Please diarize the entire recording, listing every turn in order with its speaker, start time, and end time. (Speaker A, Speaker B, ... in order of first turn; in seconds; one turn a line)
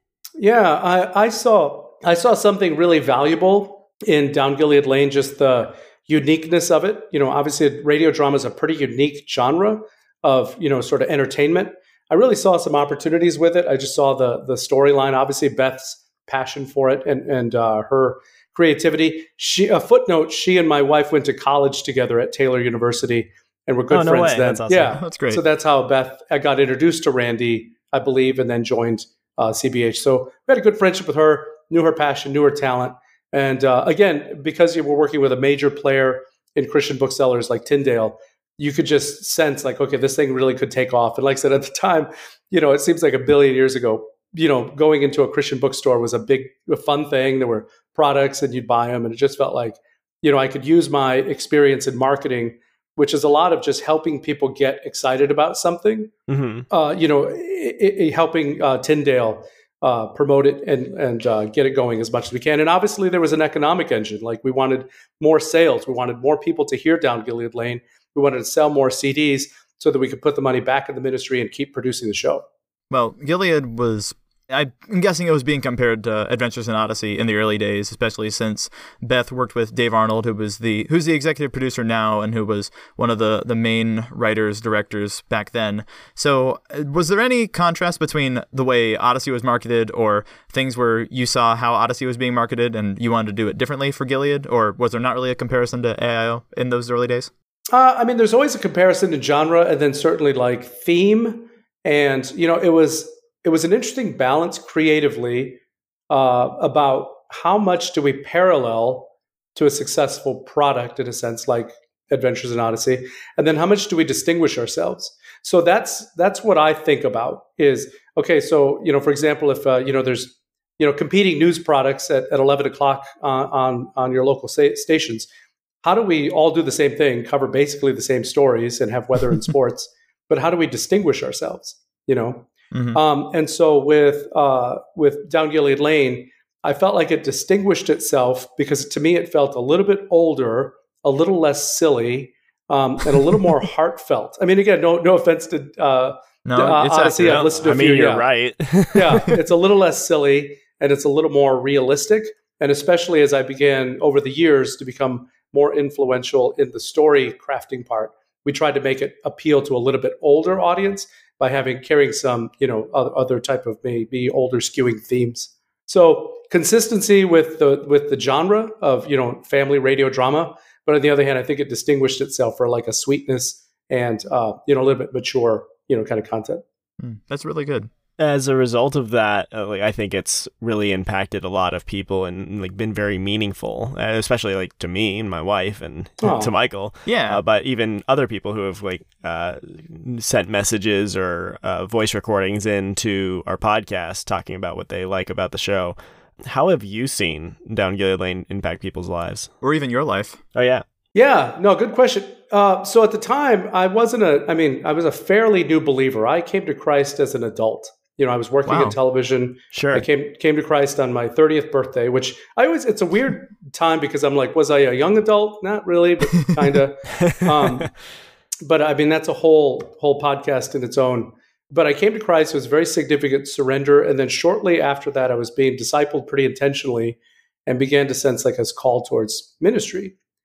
Speaker A: 0.4-56.1
Speaker B: 23.9-25.0
Speaker C: 25.0-25.4
Speaker B: 56.3-56.7
Speaker A: 56.7-72.4
Speaker C: 72.9-97.3
Speaker A: 97.7-105.6
Speaker A: 106.1-125.3
Speaker A: 125.8-148.2
Speaker C: 132.7-133.0
Speaker C: 146.4-147.5
Speaker B: 147.2-149.3
Speaker A: 148.9-176.6
Speaker C: 177.0-177.9
Speaker B: 178.2-199.5
Speaker A: 186.2-186.5
Speaker C: 187.1-187.4
Speaker C: 199.6-200.4
Speaker B: 200.6-200.8
Speaker A: 201.1-217.9
Speaker C: 208.7-209.0
Speaker B: 209.7-210.0
Speaker A: 218.6-230.1